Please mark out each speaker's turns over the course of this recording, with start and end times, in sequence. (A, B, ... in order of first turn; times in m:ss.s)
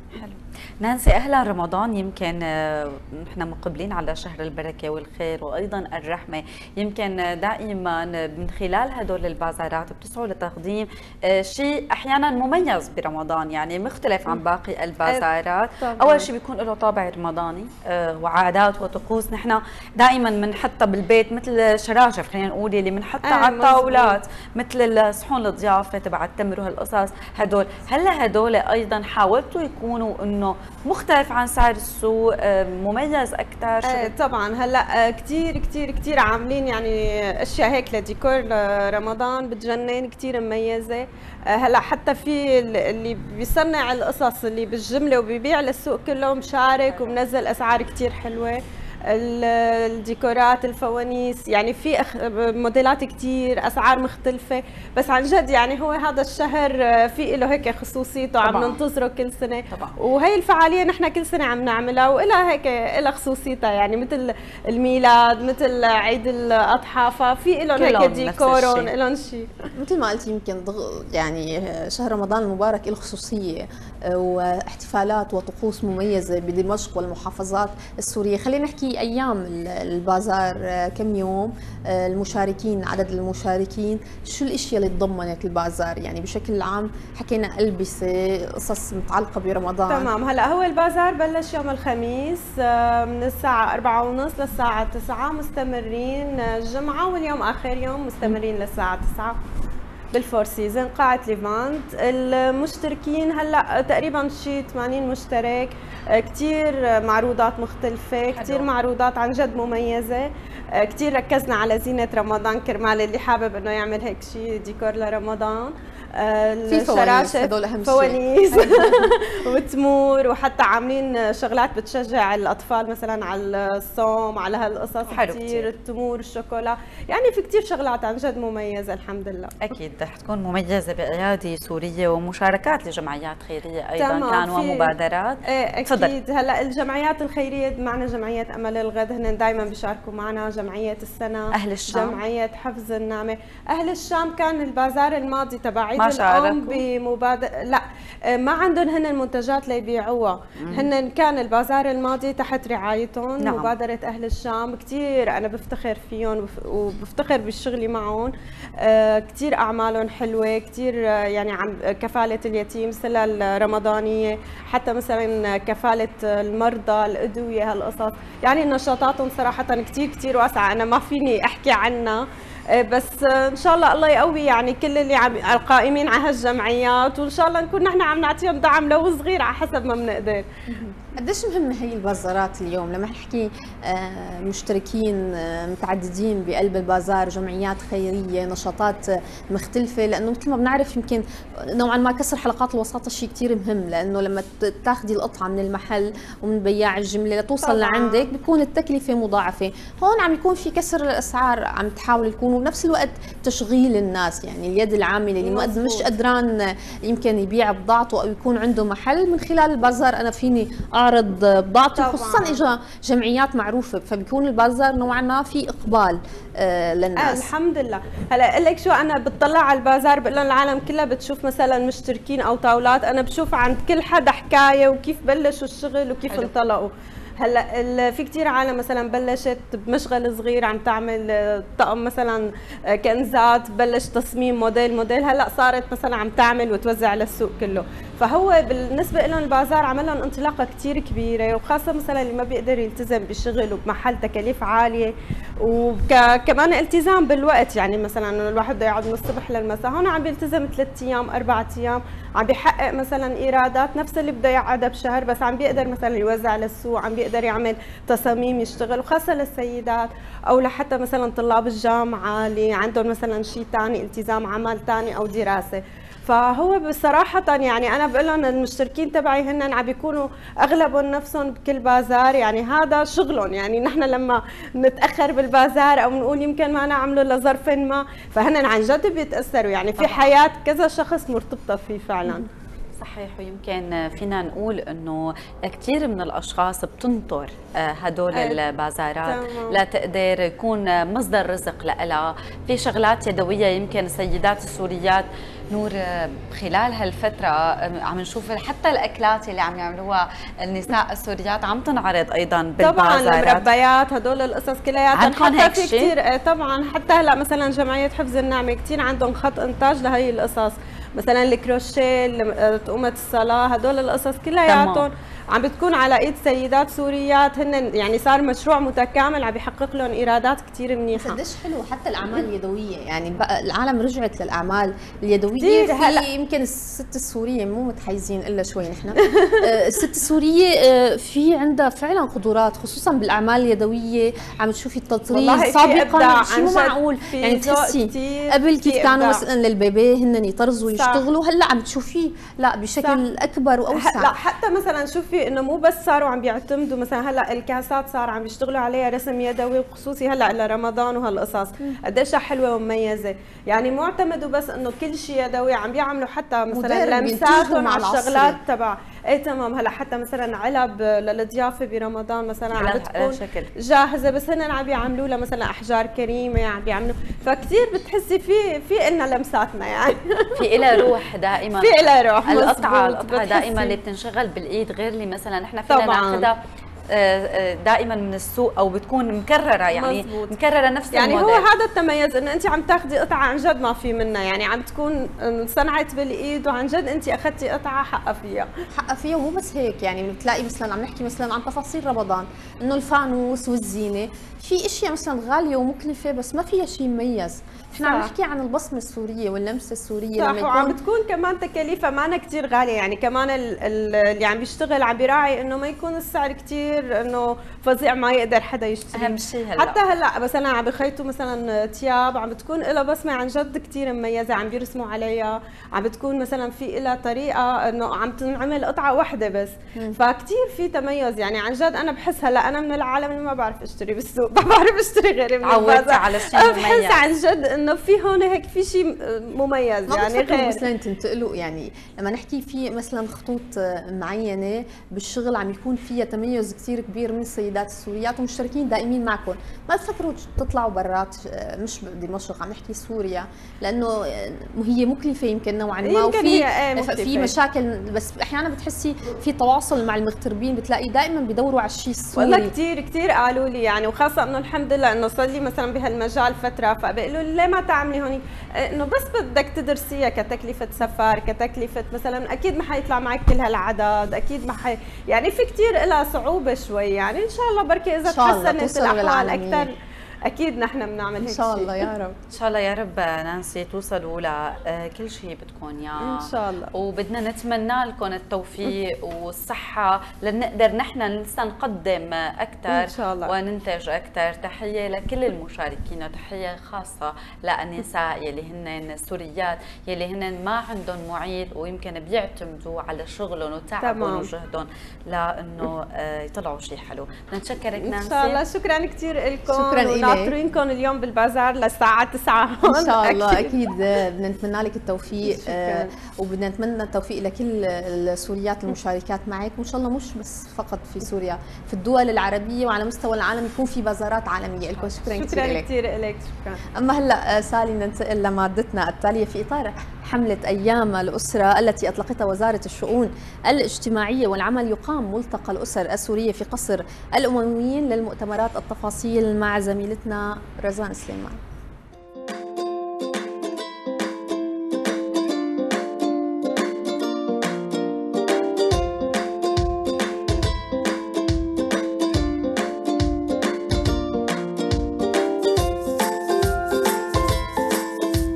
0:00.2-0:34.1 A
0:15.8-0:16.3 B
0:23.2-0:24.2 B
0:33.8-1:09.5 B
0:46.9-0:47.2 A
0:58.4-0:58.8 A
0:59.7-1:00.0 A
1:07.8-1:08.9 A
1:09.8-1:30.1 C
1:29.9-1:39.4 B
1:40.1-2:09.8 B
1:48.3-1:48.7 A
1:56.7-1:59.1 C
2:05.1-2:05.7 A
2:09.6-2:16.1 A
2:14.0-2:14.9 B
2:15.5-3:00.4 B
2:21.5-2:22.2 A
2:26.0-2:26.8 A
2:30.6-2:30.9 A
2:33.4-2:33.7 A
3:00.7-3:37.5 C
3:17.6-3:18.3 B
3:25.4-3:26.2 B
3:31.9-3:32.6 B
3:37.2-4:42.5 B
4:40.0-4:40.3 A
4:43.0-5:03.7 A
4:48.3-4:48.6 B
4:49.2-4:49.8 B
5:02.8-5:21.4 B
5:05.1-5:06.1 A
5:14.7-5:15.0 A
5:21.1-5:44.3 C
5:25.6-5:26.3 B
5:29.2-5:29.7 B
5:35.3-5:39.4 B
5:40.9-5:41.2 B
5:43.9-6:11.0 B
5:56.7-5:58.6 C
6:02.7-6:03.7 A
6:10.6-6:16.6 A
6:11.8-6:14.0 B
6:15.9-6:16.5 B
6:17.1-6:21.7 A
6:19.9-6:20.5 B
6:21.1-6:28.7 B
6:29.0-6:41.0 C
6:38.0-6:38.3 B
6:40.4-7:10.8 B
6:49.1-6:50.0 A
7:05.6-7:07.2 A
7:10.1-7:32.7 C
7:26.0-7:27.5 B
7:32.3-7:49.9 B
7:48.2-7:49.9 C
7:50.5-7:52.3 B
7:51.4-7:52.2 C
7:52.5-8:18.6 A
7:56.2-7:56.9 B
8:02.9-8:03.5 B
8:14.0-8:14.5 B
8:18.0-8:23.9 B
8:19.7-8:20.5 C
8:22.8-8:35.8 C
8:25.4-8:26.1 B
8:35.0-8:36.8 B
8:36.9-8:51.6 C